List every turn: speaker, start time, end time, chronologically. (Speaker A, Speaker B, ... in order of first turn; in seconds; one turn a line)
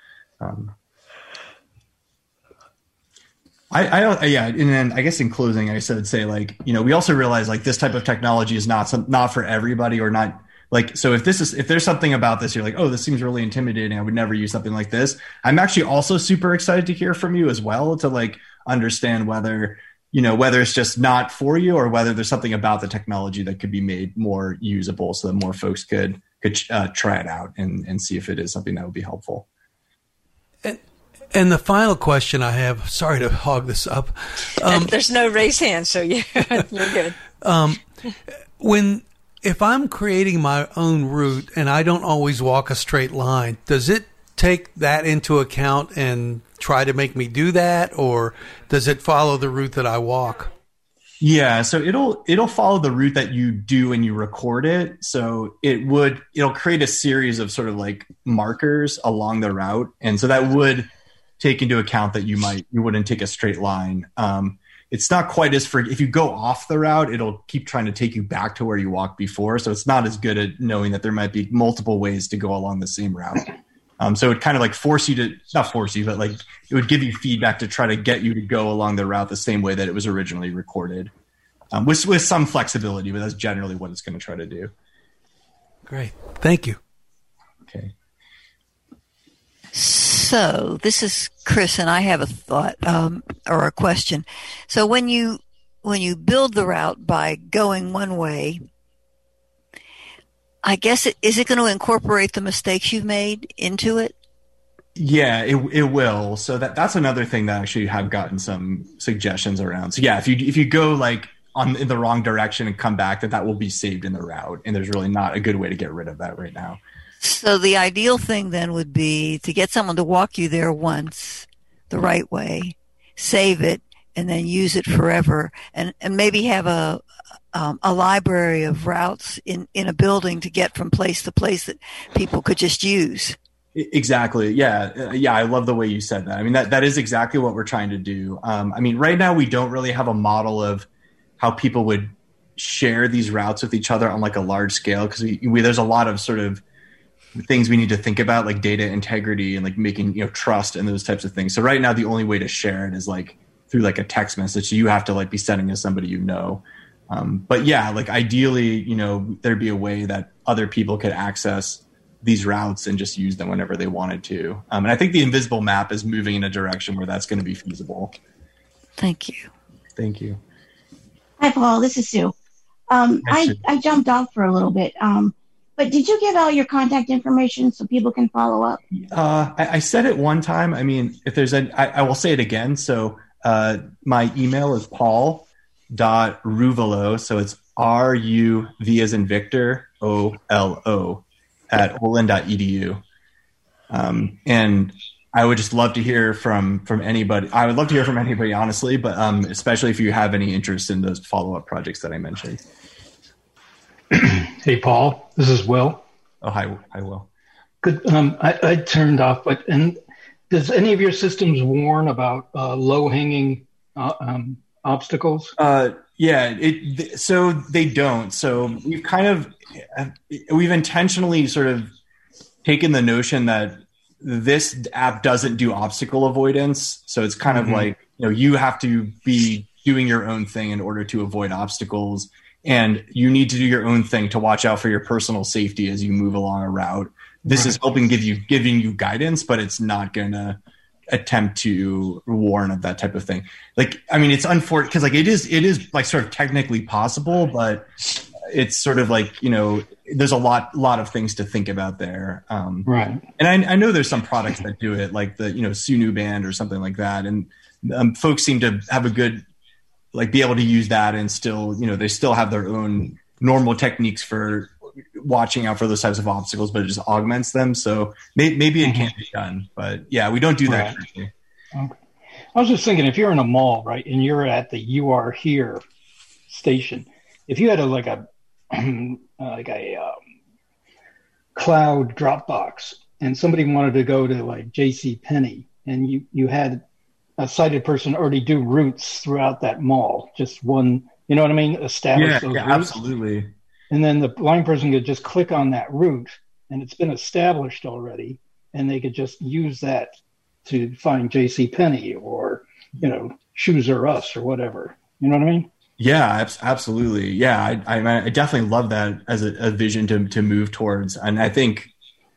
Speaker A: 0.4-0.7
Speaker A: 3.7-29.4
Speaker B: 31.3-34.9
Speaker C: 34.6-37.2
Speaker B: 37.3-37.8
Speaker B: 38.6-50.5
Speaker A: 51.2-81.1
Speaker A: 81.7-84.7
Speaker B: 85.9-86.8
Speaker D: 89.7-98.6
Speaker D: 100.6-104.1
Speaker A: 105.0-116.8
Speaker D: 117.2-133.4
Speaker A: 133.7-140.9
Speaker A: 141.4-146.6
Speaker A: 147.3-168.1
Speaker D: 169.0-169.5
Speaker A: 170.0-170.4
Speaker E: 171.4-172.3
Speaker E: 172.9-178.8
Speaker A: 173.2-173.6
Speaker A: 178.9-193.0
Speaker A: 193.9-202.6
Speaker F: 204.1-206.0
Speaker A: 206.4-207.3
Speaker F: 207.8-210.0
Speaker F: 210.5-215.5
Speaker A: 215.6-221.9
Speaker A: 222.6-240.6
Speaker F: 227.5-227.9
Speaker F: 237.5-237.8
Speaker A: 241.1-259.4
Speaker F: 252.8-253.2
Speaker A: 260.1-271.3
Speaker F: 268.8-269.1
Speaker F: 270.7-271.0
Speaker F: 272.5-275.8
Speaker F: 276.5-280.2
Speaker F: 281.5-286.8
Speaker F: 287.4-293.0
Speaker A: 292.1-293.5
Speaker F: 293.9-305.7
Speaker A: 306.0-311.9